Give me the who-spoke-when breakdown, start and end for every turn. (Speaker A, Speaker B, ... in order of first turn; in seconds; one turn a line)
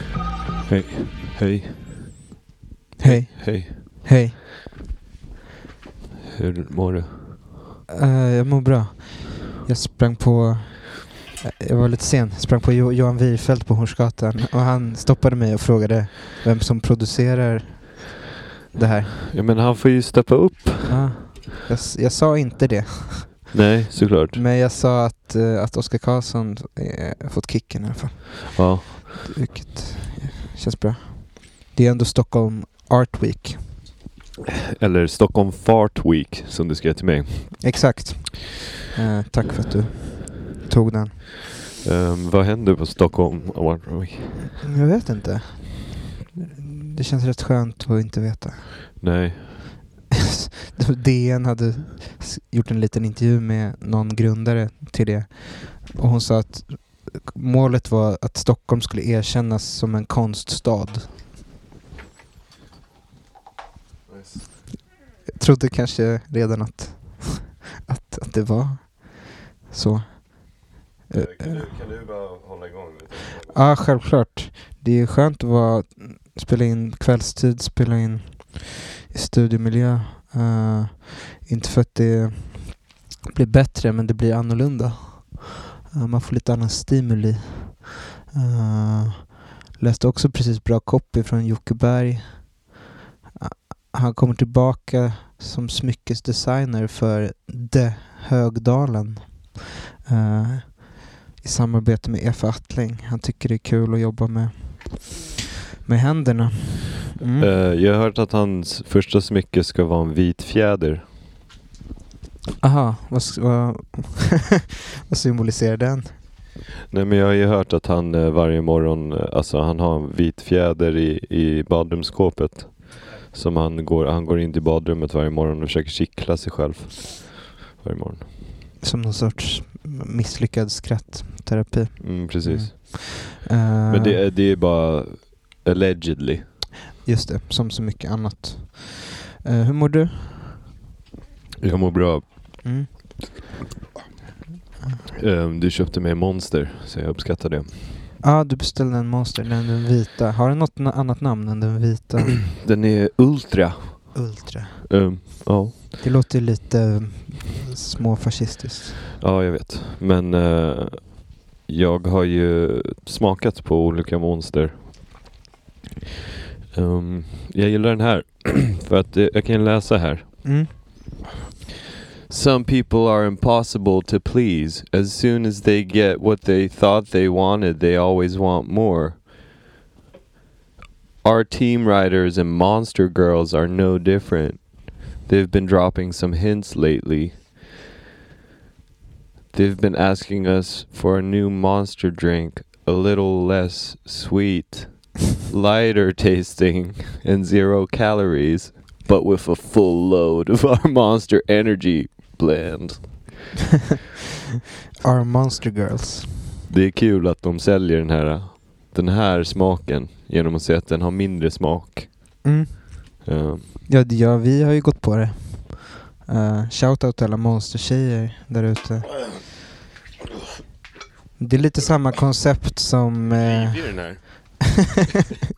Speaker A: 0.7-2.1
Speaker B: 3.0-4.4
Speaker A: 3.0-3.8
Speaker A: 6.3-7.4
Speaker B: 7.9-18.2
Speaker B: 18.7-19.2
Speaker A: 19.3-21.2
Speaker B: 20.9-23.6
Speaker A: 23.5-24.4
Speaker B: 24.3-33.8
Speaker A: 28.6-29.0
Speaker A: 34.7-37.6
Speaker B: 37.6-41.2
Speaker A: 41.8-44.5
Speaker B: 44.6-49.0
Speaker A: 49.0-49.5
Speaker B: 50.7-61.1
Speaker A: 64.1-64.5
Speaker B: 65.3-71.7
Speaker A: 71.1-73.7
Speaker B: 73.5-92.7
Speaker B: 93.4-105.3
Speaker B: 105.8-107.5
Speaker A: 107.4-111.0
Speaker B: 112.6-116.2
Speaker A: 116.9-128.3
Speaker B: 128.8-134.2
Speaker A: 132.0-132.7
Speaker A: 133.9-136.4
Speaker B: 137.1-140.6
Speaker A: 141.6-142.7
Speaker B: 142.6-142.9
Speaker A: 145.1-147.8
Speaker B: 148.2-152.5
Speaker A: 152.5-155.8
Speaker B: 154.2-155.4
Speaker B: 156.0-159.0
Speaker A: 159.2-164.8
Speaker A: 166.7-170.6
Speaker B: 170.4-170.7
Speaker A: 172.3-179.2
Speaker A: 181.2-187.4
Speaker A: 189.5-203.4
Speaker B: 205.0-206.5
Speaker A: 206.7-212.5
Speaker B: 212.4-213.3
Speaker A: 213.2-213.7
Speaker B: 213.9-219.4
Speaker B: 221.4-224.5
Speaker A: 223.2-224.2